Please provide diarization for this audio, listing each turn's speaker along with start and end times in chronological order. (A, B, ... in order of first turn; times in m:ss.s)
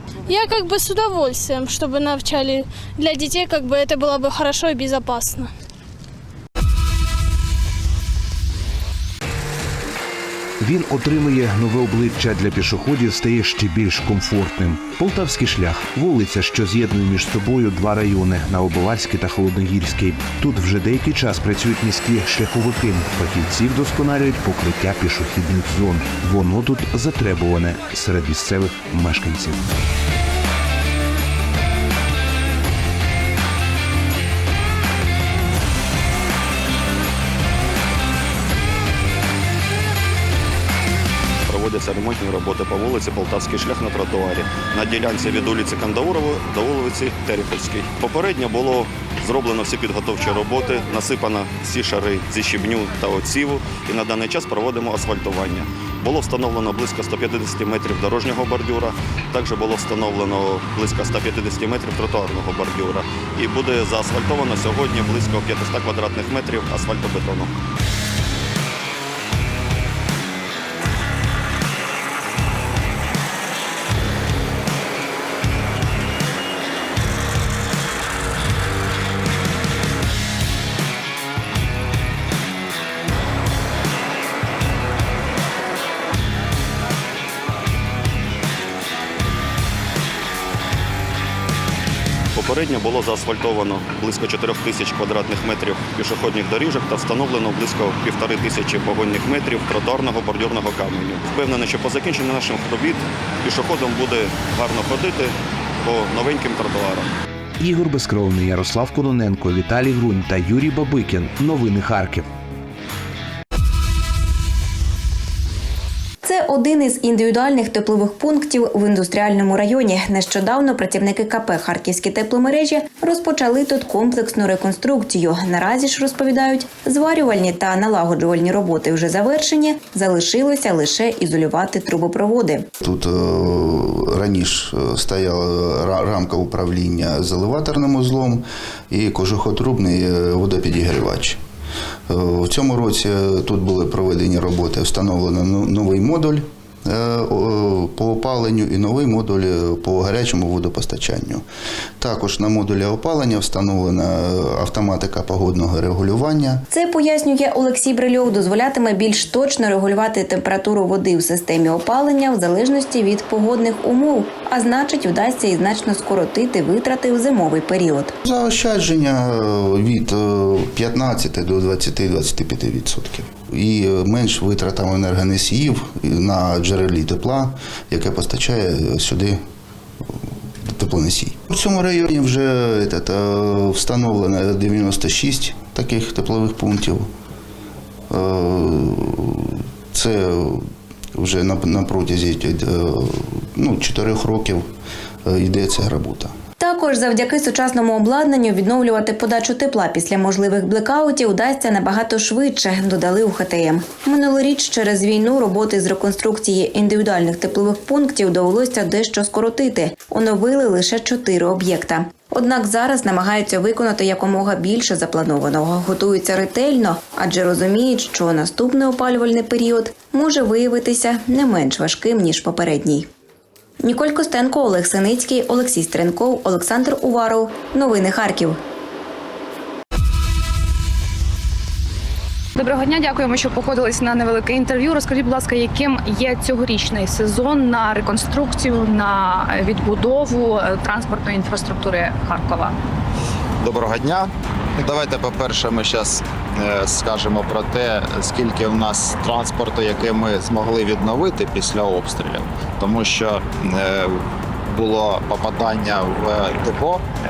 0:00.2-0:05.5 A
0:10.6-0:29.7 B
0:41.5-1:07.5 C
1:32.4-1:47.1 C
1:47.6-1:52.3 B
1:56.2-2:12.7 D
2:12.8-2:21.4 E
2:22.1-2:31.4 E
2:32.0-2:36.6 E
2:36.7-2:48.1 D
2:48.2-2:59.4 E
3:00.6-3:07.1 E
3:08.1-3:10.6 E
3:11.2-3:14.6 E
3:15.2-3:16.3 E
3:16.6-3:43.1 D
3:43.8-3:48.6 D
3:52.6-4:02.7 F
4:03.6-4:04.3 G
4:04.8-4:17.0 G